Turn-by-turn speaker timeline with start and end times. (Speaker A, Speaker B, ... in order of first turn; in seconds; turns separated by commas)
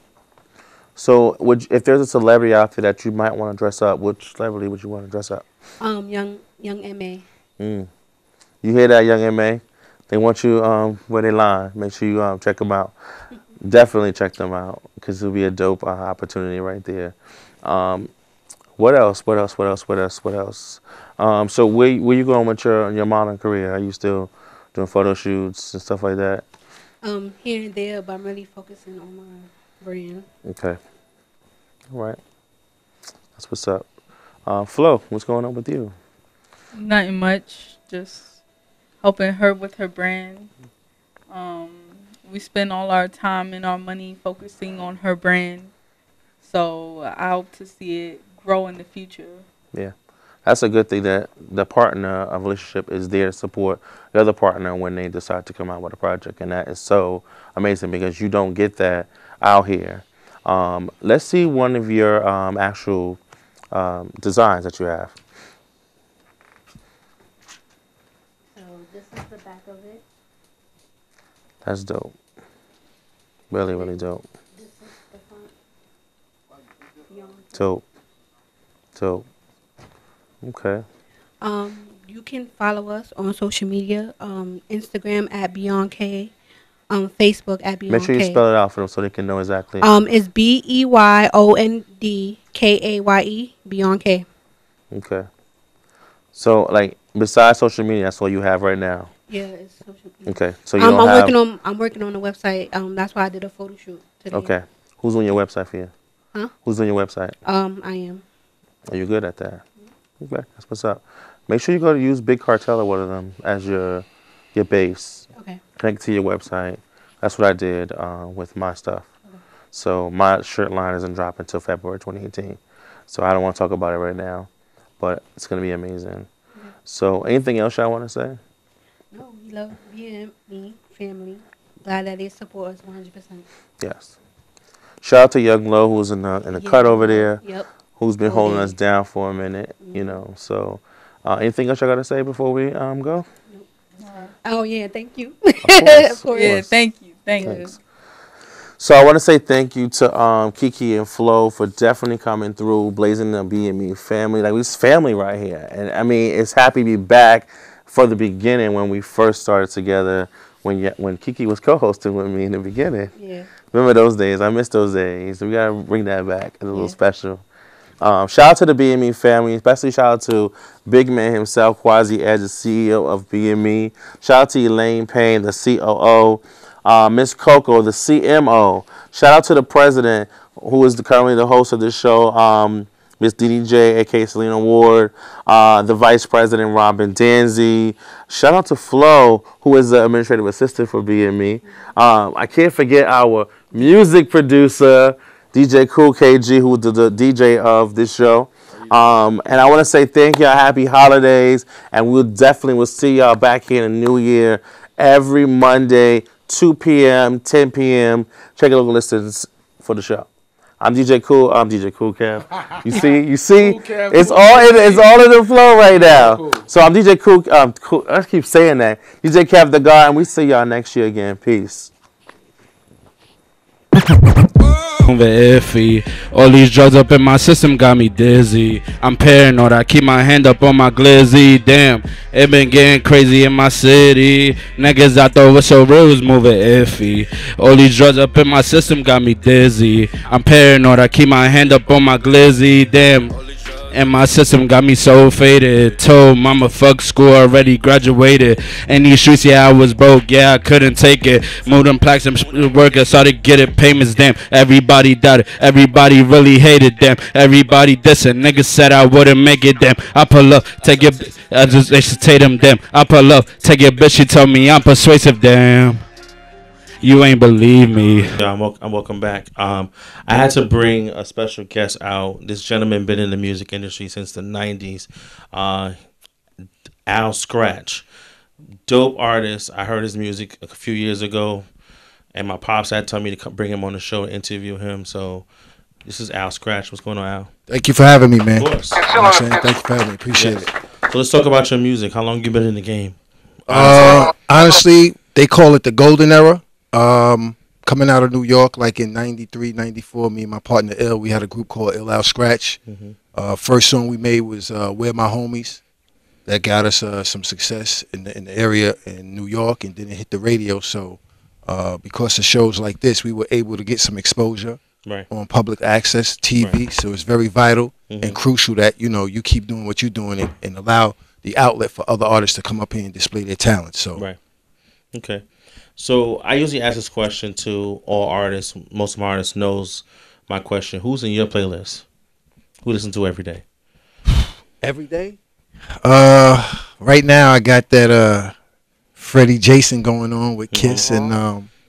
Speaker A: 1.0-5.5, Speaker B: 5.8-7.3, Speaker A: 7.6-7.9, Speaker A: 8.6-12.9, Speaker A: 13.6-18.1, Speaker A: 18.8-26.4, Speaker B: 27.0-30.3, Speaker A: 30.4-30.8, Speaker A: 31.9-32.2, Speaker A: 33.4-33.9, Speaker A: 34.5-36.0, Speaker C: 36.7-38.4, Speaker C: 39.0-40.5, Speaker C: 41.3-45.7, Speaker C: 46.4-49.5, Speaker A: 50.5-63.2, Speaker A: 63.7-65.2, Speaker B: 68.5-70.0, Speaker A: 71.6-72.2, Speaker A: 73.5-74.2, Speaker B: 73.7-74.0, Speaker B: 74.5-75.5, Speaker B: 77.1-77.6, Speaker A: 77.5-77.8, Speaker A: 79.0-79.3, Speaker A: 80.4-80.8, Speaker B: 81.4-86.3, Speaker B: 86.9-88.4, Speaker A: 87.9-89.9, Speaker B: 89.8-94.3, Speaker A: 94.9-95.3, Speaker A: 96.3-99.1, Speaker B: 99.3-104.5, Speaker A: 100.3-101.3, Speaker A: 104.3-105.9, Speaker A: 106.6-107.4, Speaker B: 107.5-108.2, Speaker A: 108.9-109.6, Speaker A: 110.2-115.3, Speaker A: 115.8-119.1, Speaker A: 119.7-124.5, Speaker A: 125.0-126.3, Speaker A: 126.8-128.4, Speaker B: 129.1-133.5, Speaker A: 133.8-134.2, Speaker A: 135.0-137.4, Speaker B: 136.5-137.7, Speaker A: 137.9-143.3, Speaker B: 138.2-138.8, Speaker B: 139.8-140.2, Speaker B: 143.5-146.6, Speaker C: 144.0-144.3, Speaker A: 145.7-146.7, Speaker C: 146.3-147.8, Speaker B: 147.4-147.7, Speaker A: 147.4-147.7, Speaker A: 148.8-163.1, Speaker B: 163.1-163.5, Speaker A: 163.7-167.4, Speaker B: 166.7-167.0, Speaker A: 168.0-210.3, Speaker A: 210.8-221.9, Speaker D: 224.1-243.4, Speaker D: 243.9-266.0, Speaker D: 267.0-268.3, Speaker A: 268.3-276.0, Speaker A: 277.1-278.1, Speaker A: 278.9-281.7, Speaker A: 282.3-285.5, Speaker A: 286.1-287.5, Speaker E: 287.7-290.7, Speaker A: 288.6-289.1, Speaker A: 290.4-293.2, Speaker A: 293.7-294.2, Speaker E: 293.7-302.8, Speaker A: 302.9-303.2, Speaker E: 303.4-305.8, Speaker E: 306.5-324.3, Speaker A: 318.1-318.4, Speaker A: 325.1-332.1, Speaker A: 332.8-333.6, Speaker E: 334.8-335.4, Speaker E: 336.0-338.6, Speaker E: 339.2-341.7, Speaker A: 340.7-341.4